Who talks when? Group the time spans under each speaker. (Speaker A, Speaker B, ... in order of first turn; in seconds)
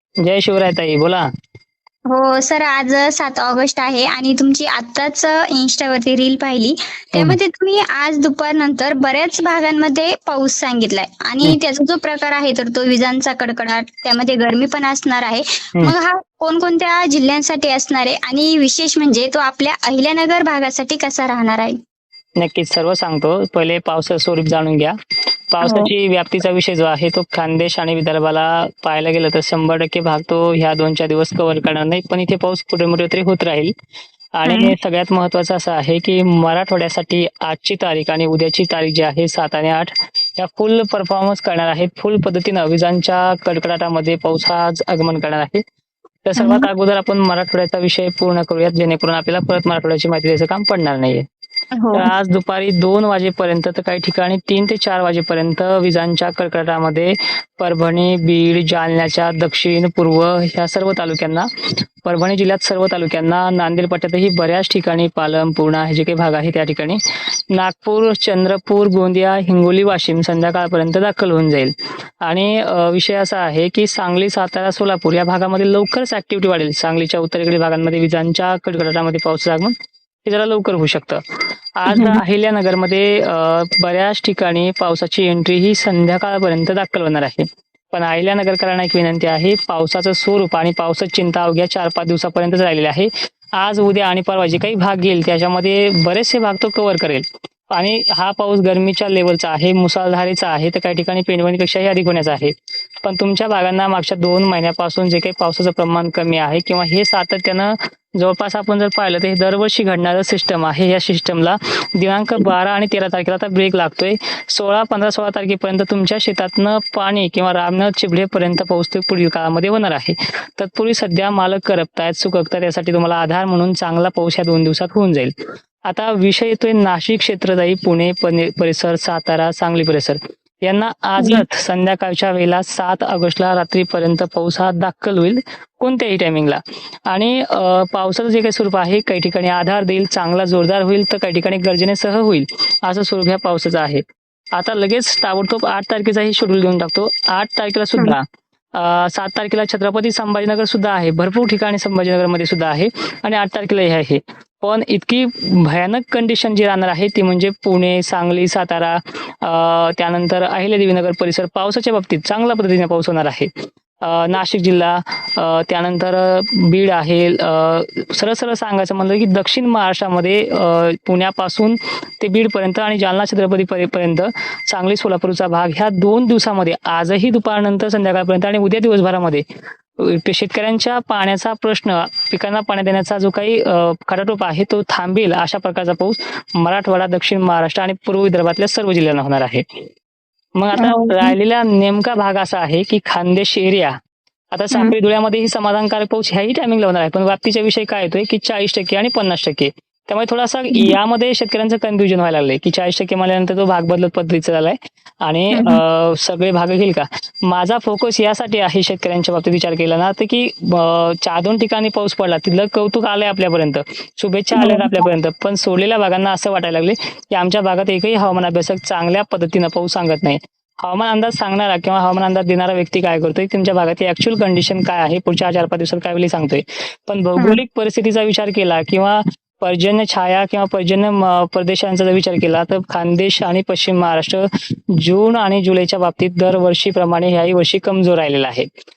Speaker A: 0.2-1.2, 22.4-24.9, 25.5-33.7, 34.4-45.6, 46.2-51.2, 51.9-61.5, 62.0-67.0, 67.5-71.7, 72.2-79.7, 80.2-81.2, 81.8-102.5, 103.0-125.3, 125.9-144.0, 144.6-148.2, 148.8-163.5, 164.0-179.4, 180.0-189.6, 190.6-193.9, 194.5-234.4, 235.0-238.7
Speaker B: 2.1-21.8, 25.6-25.9, 34.5-34.8, 46.4-46.7, 51.8-52.1, 81.9-82.2, 131.2-131.4, 190.8-191.3, 205.5-205.8, 214.6-214.9